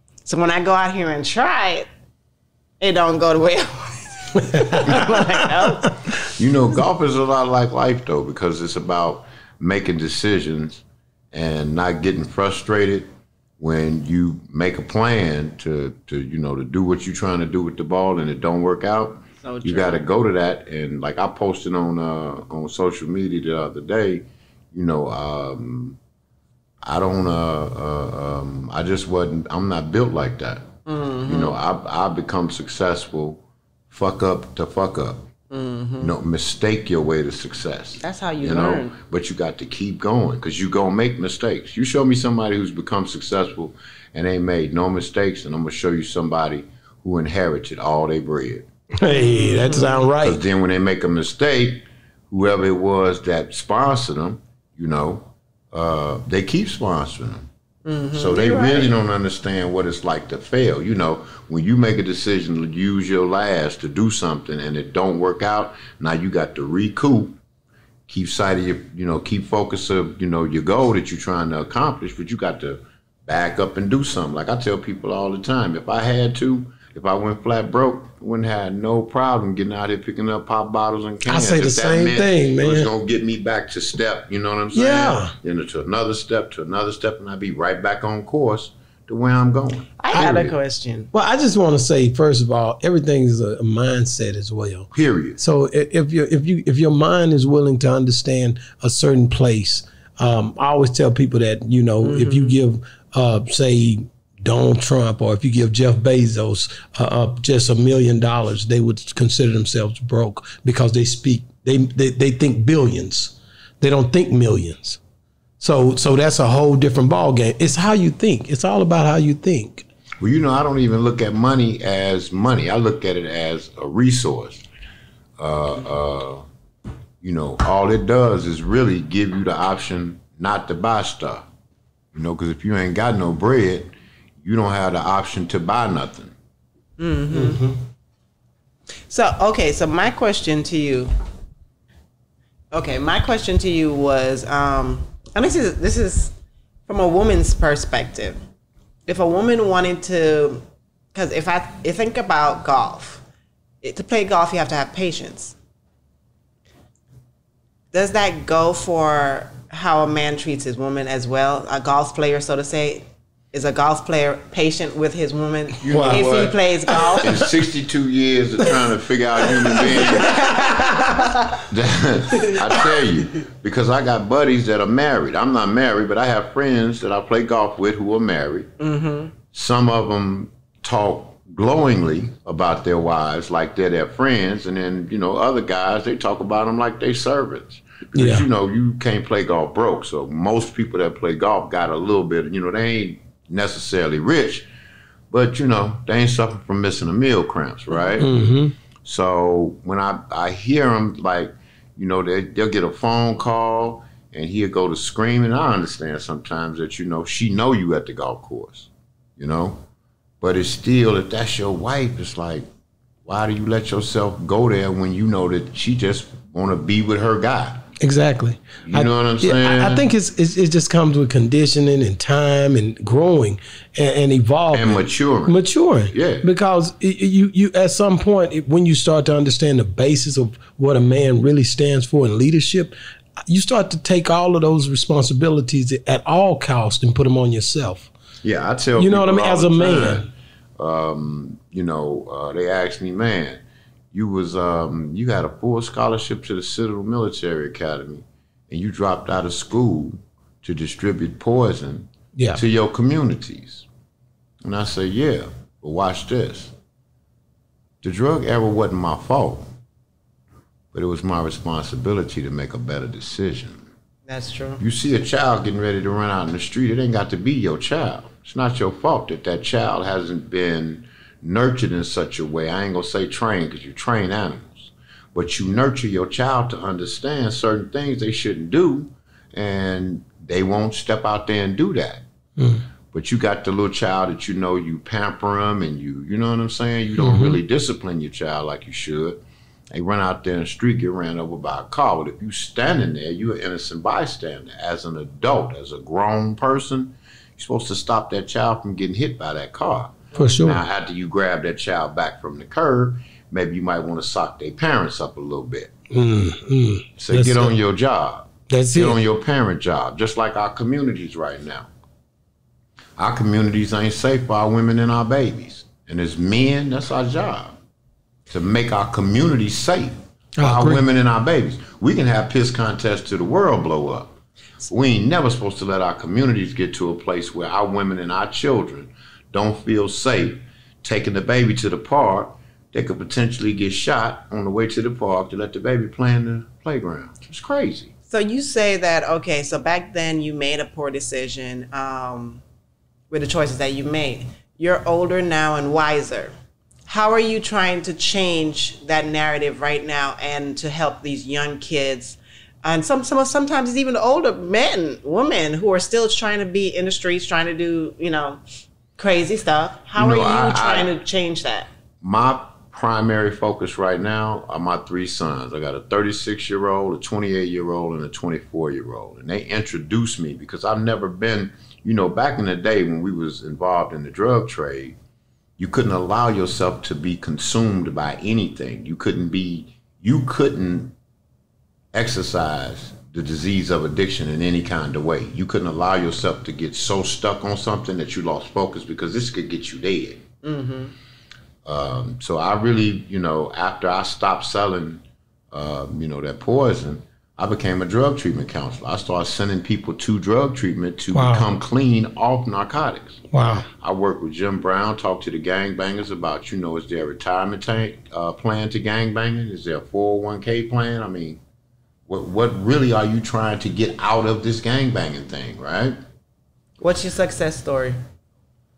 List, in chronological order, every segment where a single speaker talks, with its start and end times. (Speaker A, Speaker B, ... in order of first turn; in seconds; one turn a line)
Speaker A: 0.2-1.9
Speaker A: 2.8-5.9
Speaker B: 4.4-6.0
Speaker C: 6.3-13.1
Speaker C: 13.6-26.0
Speaker A: 19.4-20.0
Speaker C: 26.8-30.7
Speaker A: 30.9-31.6
Speaker C: 31.2-35.3
Speaker A: 35.5-36.1
Speaker C: 36.0-48.7
Speaker A: 38.0-38.9
Speaker B: 48.9-50.4
Speaker A: 49.1-50.1
Speaker C: 50.2-57.5
Speaker A: 57.8-58.9
Speaker C: 58.1-67.4
Speaker C: 68.1-90.5
Speaker B: 81.2-82.9
Speaker B: 84.7-85.3
Speaker A: 90.0-91.1
Speaker B: 91.1-115.0
Speaker C: 94.9-95.4
Speaker A: 102.0-102.6
Speaker B: 115.6-119.8
Speaker C: 120.2-124.6
Speaker C: 125.4-126.4
Speaker C: 127.2-131.4
Speaker C: 132.1-136.3
Speaker A: 137.0-137.7
Speaker B: 137.3-137.7
Speaker A: 139.1-141.1
Speaker A: 142.7-146.3
Speaker A: 146.9-148.4
Speaker A: 149.1-150.6
Speaker A: 151.1-153.2
Speaker A: 153.8-155.5
Speaker A: 157.9-167.3
Speaker C: 165.8-166.6
Speaker B: 165.9-166.2
Speaker B: 166.9-167.2
Speaker C: 167.2-170.6
Speaker B: 169.5-171.3
Speaker A: 169.9-171.4
Speaker C: 171.6-178.7
Speaker A: 178.8-179.3
Speaker C: 179.5-194.7
Speaker B: 188.1-188.4
Speaker C: 195.3-209.8
Speaker B: 198.2-198.7
Speaker C: 210.4-212.7
Speaker C: 213.2-217.9
Speaker B: 218.0-232.9
Speaker C: 218.8-220.1
Speaker C: 224.7-226.4
Speaker B: 233.5-238.1
Speaker C: 238.4-243.6
Speaker B: 239.0-240.3
Speaker C: 244.1-253.8
Speaker B: 252.3-252.6
Speaker C: 254.6-256.7
Speaker C: 258.0-259.7
Speaker C: 260.9-263.8
Speaker A: 264.3-264.8
Speaker C: 264.8-282.2
Speaker B: 282.6-282.8
Speaker C: 283.1-305.9
Speaker B: 287.2-287.6
Speaker B: 300.3-300.8
Speaker B: 306.1-307.7
Speaker C: 307.2-311.9
Speaker B: 308.7-309.2
Speaker C: 313.2-317.7
Speaker C: 318.5-324.3
Speaker B: 320.6-321.0
Speaker C: 324.9-338.1
Speaker A: 338.3-342.6
Speaker A: 343.3-346.5
Speaker A: 347.1-358.6
Speaker A: 359.2-361.9
Speaker C: 360.2-361.1
Speaker C: 362.2-375.2
Speaker C: 375.8-381.1
Speaker C: 382.1-390.4
Speaker A: 390.6-391.1
Speaker C: 391.8-403.4
Speaker B: 401.3-401.6
Speaker B: 403.5-403.9
Speaker C: 403.9-411.6
Speaker C: 412.3-416.2
Speaker A: 417.0-418.2